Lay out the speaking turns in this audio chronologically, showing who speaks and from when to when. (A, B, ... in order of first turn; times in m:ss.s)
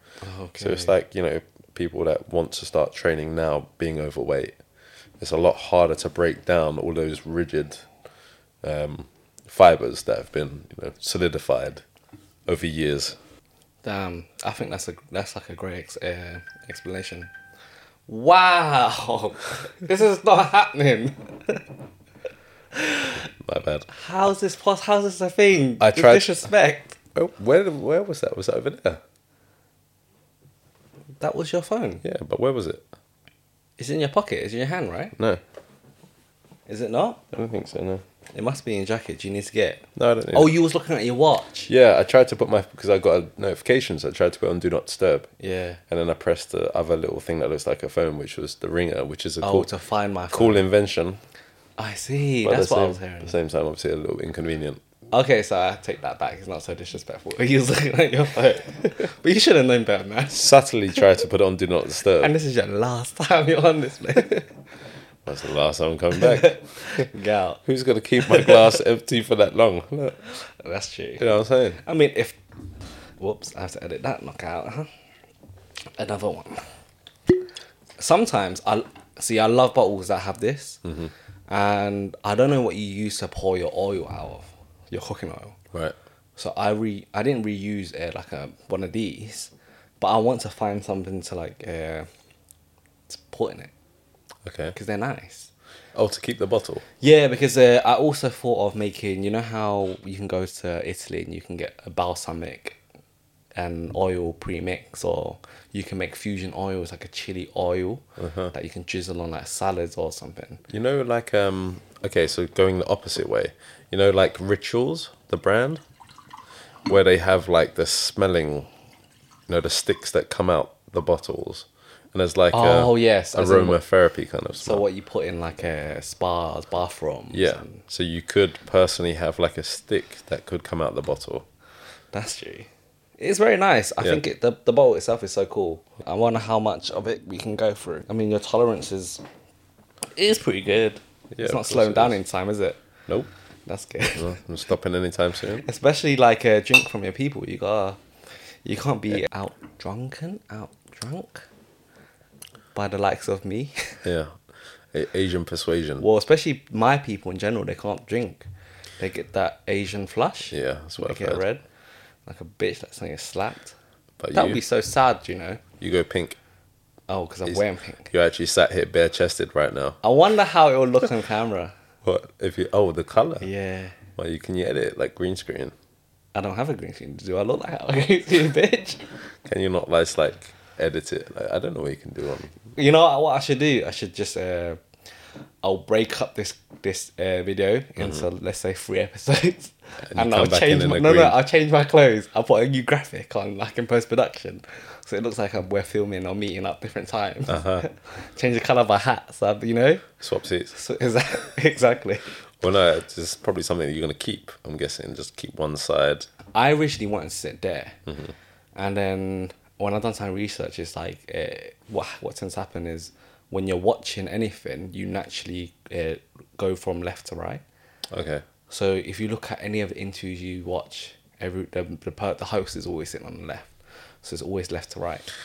0:00.2-0:01.0 A
0:00.6-0:04.6 B
0:05.2-0:07.9 B
0:08.6-0:11.8 B
0:12.5-0:13.2 B
0:13.8-0:17.3 A
0:18.1-0:21.7 A
0:22.7-0:23.3 A
0:23.3-0:23.9 B
0:23.9-0:27.0 A
0:25.8-0:26.3 B
0:27.2-0:29.0 B
0:31.2-0:32.0 A
0:32.0-0:32.9 B
0:33.8-0:35.2 A
0:36.7-0:37.2 A
0:37.3-0:38.0 B
0:38.3-0:41.7 A
0:40.0-0:40.5 B
0:41.7-0:45.3 B
0:45.4-0:45.8 A
0:45.9-0:49.7 B
0:49.4-0:50.6 A
0:50.3-0:51.2 B
0:51.8-0:53.4 A
0:52.4-0:54.8 B
0:55.1-1:01.0 A
1:00.3-1:02.3 B
1:02.2-1:04.5 A
1:05.2-1:07.1 B
1:06.1-1:07.6 A
1:07.6-1:10.2 B
1:08.2-1:08.7 A
1:10.4-1:11.3 A
1:11.2-1:11.8 B
1:11.8-1:12.4 A
1:13.2-1:14.9 A
1:16.0-1:16.7 A
1:18.0-1:20.8 A
1:20.8-1:21.1 B
1:21.5-1:25.6 A
1:26.4-1:32.1 A
1:33.1-1:33.7 A
1:34.4-1:34.8 B
1:34.8-1:35.5 A
1:35.9-1:36.8 B
1:37.0-1:42.8 A
1:43.6-1:50.6 A
1:48.2-1:48.5 B
1:50.7-1:55.8 B
1:56.9-1:58.7 B
1:59.5-2:04.8 B
2:02.5-2:03.8 A
2:04.6-2:07.8 A
2:07.3-2:11.4 B
2:12.1-2:19.2 A
2:20.1-2:22.8 A
2:21.3-2:22.2 B
2:23.7-2:24.4 A
2:24.1-2:25.6 B
2:25.6-2:28.0 A
2:28.6-2:31.5 A
2:32.8-2:34.1 A
2:34.0-2:34.4 B
2:34.9-2:36.0 B
2:36.0-2:38.4 A
2:39.0-2:41.6 A
2:40.5-2:41.4 B
2:42.3-2:43.8 A
2:44.2-2:44.6 B
2:44.3-2:45.6 A
2:45.8-2:46.4 B
2:47.1-2:48.1 A
2:47.5-2:50.0 B
2:50.0-2:51.7 A
2:52.0-2:53.5 B
2:53.4-2:54.0 A
2:54.2-2:55.7 B
2:56.4-2:59.1 A
2:59.4-3:02.6 B
3:02.8-3:04.8 A
3:05.6-3:20.1 A
3:08.0-3:08.2 B
3:10.1-3:11.4 B
3:17.5-3:17.8 B
3:20.2-3:20.8 B
3:20.7-3:22.3 A
3:22.6-3:26.3 B
3:26.5-3:28.0 A
3:28.1-3:28.3 B
3:28.8-3:37.6 A
3:38.1-3:38.4 B
3:38.7-3:45.2 A